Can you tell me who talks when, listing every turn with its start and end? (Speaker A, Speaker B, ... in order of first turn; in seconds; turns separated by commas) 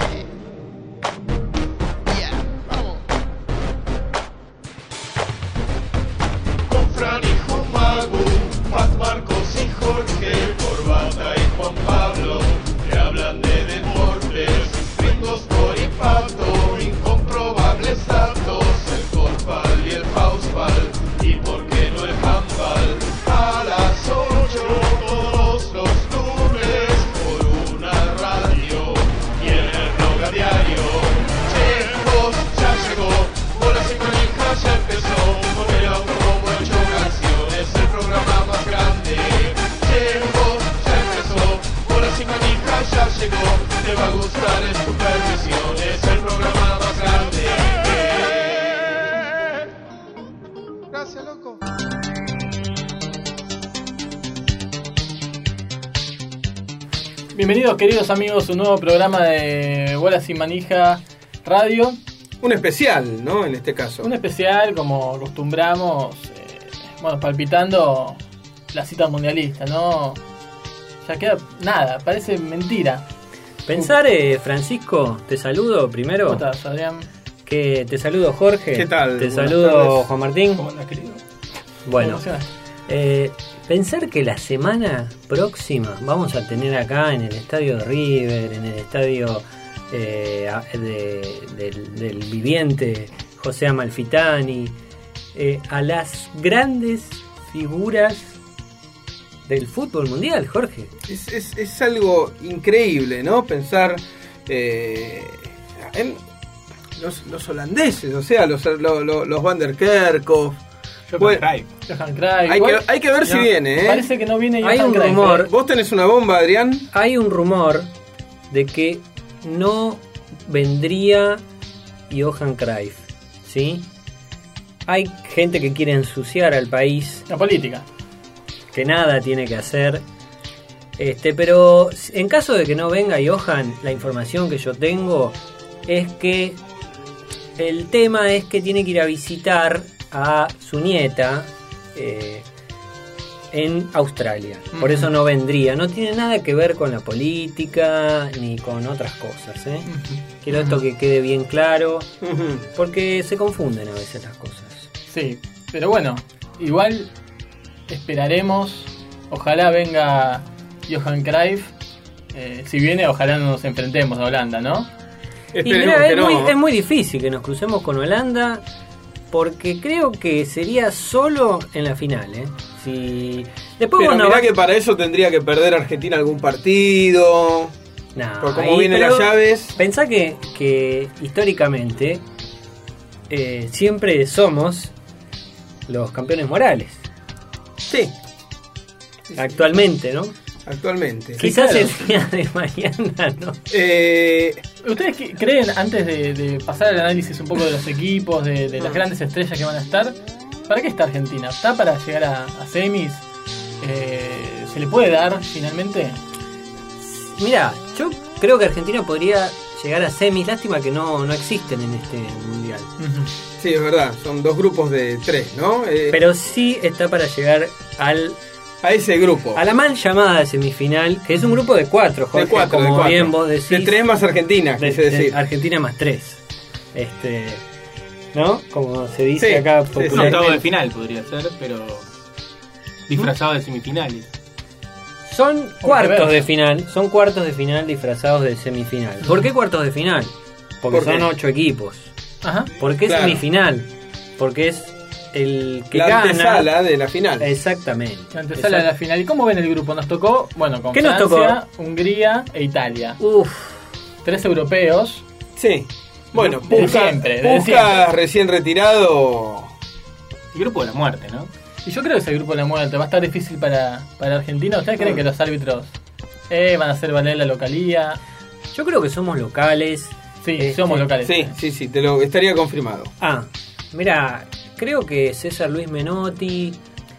Speaker A: 2.2-3.0, Speaker A: 6.7-49.1, Speaker A: 50.9-51.6, Speaker B: 57.3-62.0, Speaker C: 62.4-64.1, Speaker B: 64.0-68.2, Speaker B: 68.7-70.2, Speaker B: 71.0-73.0, Speaker D: 73.7-76.4, Speaker B: 76.3-77.1, Speaker D: 77.5-80.7, Speaker C: 78.7-80.0, Speaker E: 80.6-81.2, Speaker D: 81.8-82.2, Speaker B: 82.0-82.5, Speaker D: 82.9-94.8, Speaker D: 95.3-98.4, Speaker D: 99.5-100.9, Speaker C: 101.1-106.2, Speaker C: 107.0-110.6, Speaker E: 111.1-111.7, Speaker C: 111.2-111.4, Speaker B: 111.9-115.5, Speaker C: 112.5-114.1, Speaker D: 114.6-115.5, Speaker C: 115.4-116.9, Speaker D: 116.9-117.9, Speaker D: 118.5-121.4, Speaker D: 122.1-123.9, Speaker D: 124.9-127.2, Speaker B: 127.3-127.9, Speaker D: 128.7-130.0, Speaker D: 131.0-136.6, Speaker D: 137.6-142.5, Speaker D: 143.5-149.9, Speaker B: 144.7-145.1, Speaker B: 149.9-150.8, Speaker D: 150.4-152.1, Speaker C: 152.2-152.7, Speaker D: 152.8-154.9, Speaker B: 155.1-157.1, Speaker B: 157.9-161.7, Speaker B: 162.3-164.9, Speaker C: 165.5-166.5, Speaker D: 165.6-168.6, Speaker D: 169.3-174.5, Speaker C: 174.0-177.7, Speaker D: 178.2-182.2, Speaker C: 178.4-179.7, Speaker D: 183.3-184.9, Speaker D: 185.9-187.0, Speaker C: 187.9-188.1, Speaker C: 189.3-189.6, Speaker D: 189.4-190.3, Speaker C: 190.7-191.4, Speaker B: 191.4-191.9, Speaker D: 191.4-193.7, Speaker C: 193.7-194.6, Speaker B: 194.8-200.2, Speaker B: 200.7-203.2, Speaker B: 203.8-206.2, Speaker D: 207.0-212.9, Speaker B: 213.0-213.3, Speaker C: 213.6-216.2, Speaker D: 216.1-218.4, Speaker C: 218.8-219.6, Speaker D: 219.6-224.0, Speaker C: 222.3-225.4, Speaker D: 224.8-226.4, Speaker D: 226.9-227.6, Speaker D: 228.3-230.5, Speaker C: 229.4-230.6, Speaker E: 230.1-232.1, Speaker E: 233.1-234.3, Speaker D: 235.2-242.1, Speaker B: 235.8-236.4, Speaker C: 240.9-241.3, Speaker B: 242.4-242.7, Speaker D: 242.8-246.7, Speaker C: 243.1-243.4, Speaker C: 245.9-247.5, Speaker D: 247.4-248.9, Speaker B: 248.3-253.2, Speaker D: 250.9-251.6, Speaker D: 253.2-253.8, Speaker B: 254.2-255.2, Speaker C: 255.6-259.7, Speaker B: 256.3-258.0, Speaker E: 260.5-261.5, Speaker B: 261.9-265.9, Speaker B: 266.5-268.2, Speaker D: 268.7-271.1, Speaker B: 270.4-271.5, Speaker C: 271.2-273.1, Speaker D: 273.2-276.8